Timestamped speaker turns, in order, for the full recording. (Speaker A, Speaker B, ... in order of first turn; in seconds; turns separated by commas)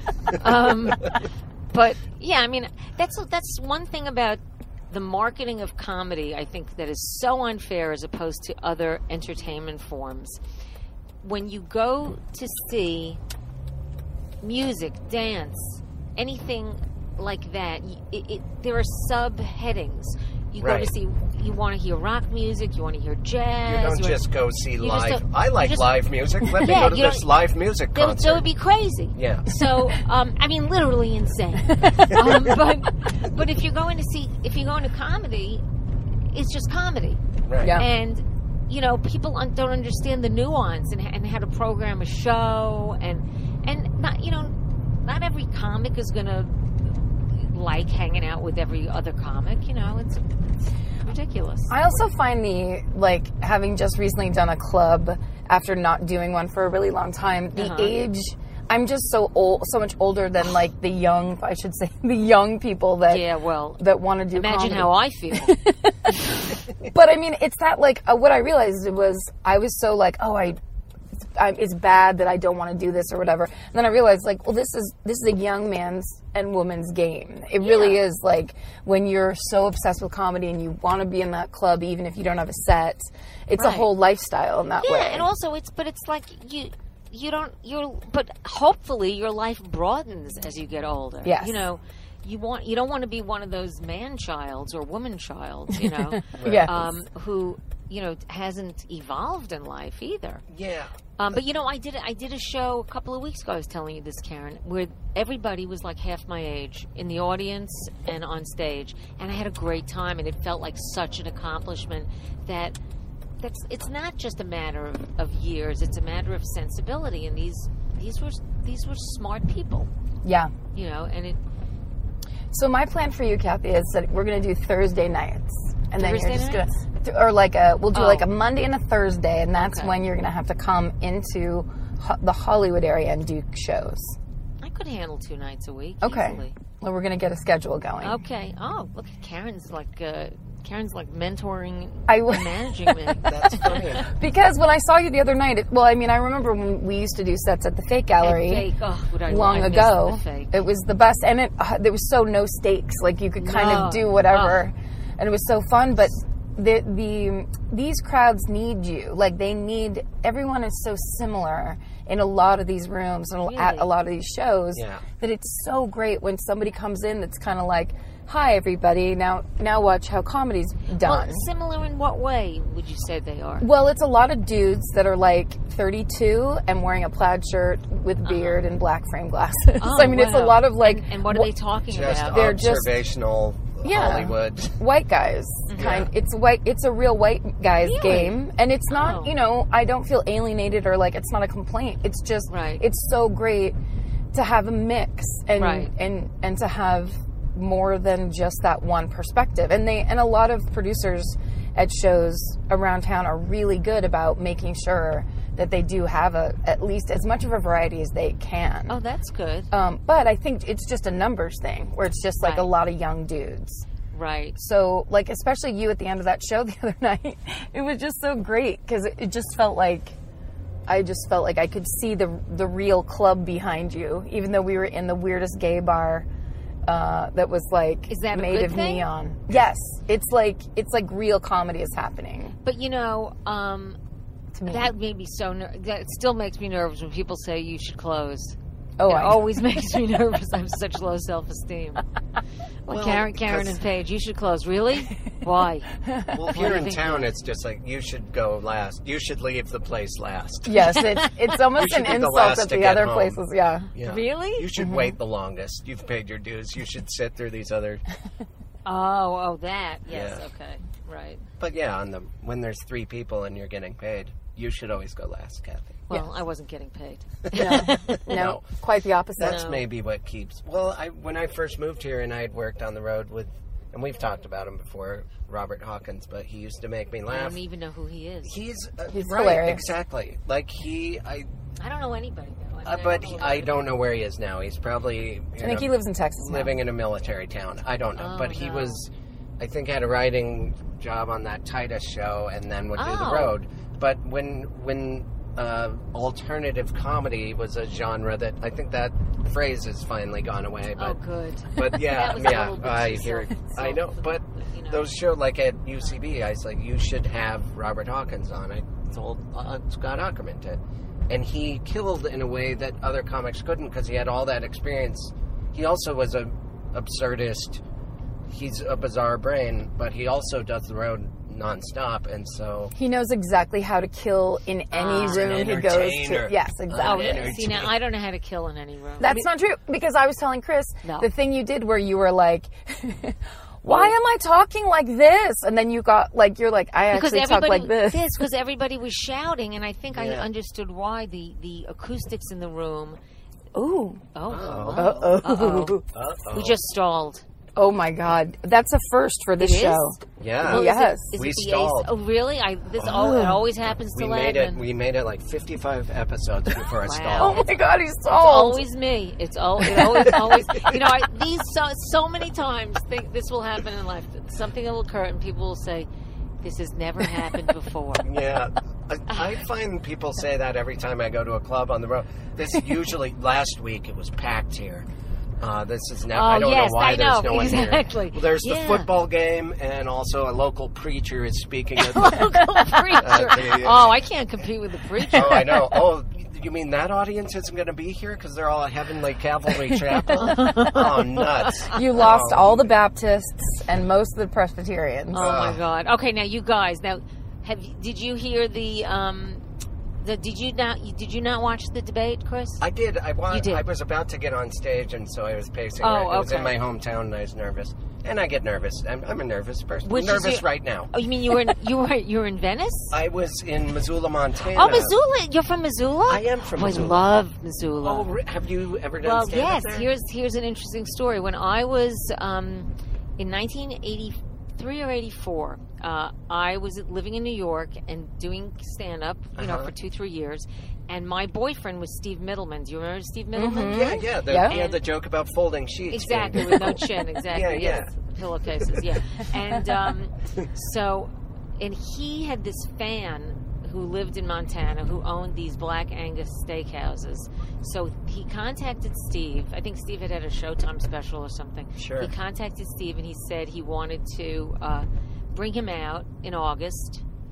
Speaker A: 0.3-1.2, Speaker A: 1.7-10.4, Speaker A: 11.2-13.2, Speaker A: 14.4-24.2, Speaker B: 20.6-20.9, Speaker B: 23.6-28.5, Speaker A: 24.8-27.3, Speaker A: 27.9-35.6, Speaker B: 29.1-29.5, Speaker A: 36.3-37.2, Speaker B: 37.5-37.8, Speaker A: 37.7-50.2, Speaker A: 51.0-51.7, Speaker C: 51.7-63.2, Speaker A: 57.5-58.0, Speaker A: 63.1-65.6, Speaker C: 63.8-70.6, Speaker C: 71.2-85.3, Speaker A: 77.6-78.0, Speaker A: 83.5-83.9, Speaker A: 84.8-100.4, Speaker C: 91.2-91.6, Speaker C: 96.3-96.7, Speaker B: 96.3-96.7, Speaker B: 100.5-100.9, Speaker A: 101.2-112.8, Speaker A: 113.4-119.9, Speaker C: 120.2-120.5, Speaker A: 120.7-121.4, Speaker C: 122.5-134.2, Speaker A: 126.0-126.6, Speaker A: 127.9-128.3, Speaker A: 129.6-129.9, Speaker A: 134.6-136.6, Speaker C: 136.0-138.2, Speaker A: 138.0-144.0, Speaker C: 142.1-142.9, Speaker B: 143.2-144.1, Speaker C: 144.0-148.7, Speaker A: 148.2-150.6, Speaker C: 149.3-171.4, Speaker A: 153.4-154.6, Speaker A: 163.4-163.9, Speaker B: 164.7-165.0, Speaker A: 171.0-173.7, Speaker C: 173.6-181.5, Speaker A: 178.2-178.6, Speaker A: 179.8-182.4, Speaker B: 181.9-184.8, Speaker C: 182.3-183.0, Speaker C: 183.8-193.8, Speaker A: 185.7-185.9, Speaker B: 185.8-186.1, Speaker A: 187.8-189.3, Speaker A: 192.5-192.8, Speaker C: 194.3-209.0, Speaker A: 195.6-195.9, Speaker A: 208.9-209.7, Speaker C: 209.7-213.8, Speaker A: 212.4-212.7, Speaker A: 214.1-214.6, Speaker C: 214.6-220.1, Speaker C: 220.9-226.3, Speaker C: 226.9-232.6, Speaker A: 228.1-229.1, Speaker A: 232.6-234.0, Speaker C: 234.5-234.9, Speaker A: 234.7-242.0, Speaker C: 239.0-239.5, Speaker A: 242.8-245.9, Speaker B: 242.9-243.8, Speaker C: 246.1-246.3, Speaker B: 246.3-250.8, Speaker A: 246.5-247.3, Speaker C: 250.7-253.9, Speaker A: 250.8-251.5, Speaker B: 251.7-253.4, Speaker B: 253.9-258.0, Speaker A: 254.0-254.7, Speaker C: 254.8-255.1, Speaker A: 258.8-261.4, Speaker B: 260.1-260.4, Speaker B: 261.6-266.0, Speaker A: 266.1-268.3, Speaker B: 267.5-268.6, Speaker C: 267.5-269.6, Speaker B: 269.4-277.6, Speaker A: 269.4-269.8, Speaker A: 277.3-278.6, Speaker B: 278.4-281.5, Speaker C: 279.1-279.8, Speaker A: 281.8-283.9, Speaker B: 282.8-301.2, Speaker C: 285.6-286.8, Speaker A: 288.2-289.0, Speaker A: 292.9-293.6, Speaker A: 300.9-305.1, Speaker B: 301.7-317.8, Speaker B: 318.5-322.9, Speaker C: 322.9-327.6, Speaker A: 324.9-325.6, Speaker B: 325.1-327.9, Speaker A: 327.0-329.4, Speaker C: 329.2-338.4, Speaker A: 331.0-331.3, Speaker A: 333.9-334.1, Speaker A: 337.1-343.2, Speaker B: 340.1-340.5, Speaker C: 343.7-344.2, Speaker A: 344.3-346.0, Speaker B: 344.5-345.2, Speaker C: 344.9-346.0, Speaker B: 346.1-346.8, Speaker A: 346.5-347.4, Speaker C: 347.8-351.3, Speaker A: 349.6-354.8, Speaker B: 350.4-352.1, Speaker B: 353.0-353.4, Speaker C: 353.2-353.6, Speaker B: 354.1-357.6, Speaker A: 357.0-357.7, Speaker C: 357.4-358.8, Speaker A: 358.3-366.1, Speaker B: 360.2-361.0, Speaker A: 366.6-368.3, Speaker B: 368.2-375.1, Speaker B: 375.6-382.6, Speaker A: 376.3-379.1, Speaker A: 382.0-385.9, Speaker B: 383.2-384.1, Speaker B: 385.3-392.9, Speaker A: 390.3-392.0, Speaker C: 391.9-395.5, Speaker A: 395.3-399.6, Speaker B: 395.4-395.8, Speaker A: 400.2-402.8, Speaker B: 402.8-411.1, Speaker A: 403.5-403.8, Speaker A: 406.0-406.8, Speaker A: 410.0-413.1, Speaker B: 413.1-415.2, Speaker A: 414.7-418.3, Speaker B: 416.3-417.3, Speaker B: 418.0-420.1, Speaker A: 419.2-435.0, Speaker B: 429.6-429.9, Speaker C: 433.5-434.7, Speaker B: 433.9-438.1, Speaker A: 436.1-457.2, Speaker B: 438.8-439.0, Speaker B: 452.0-452.3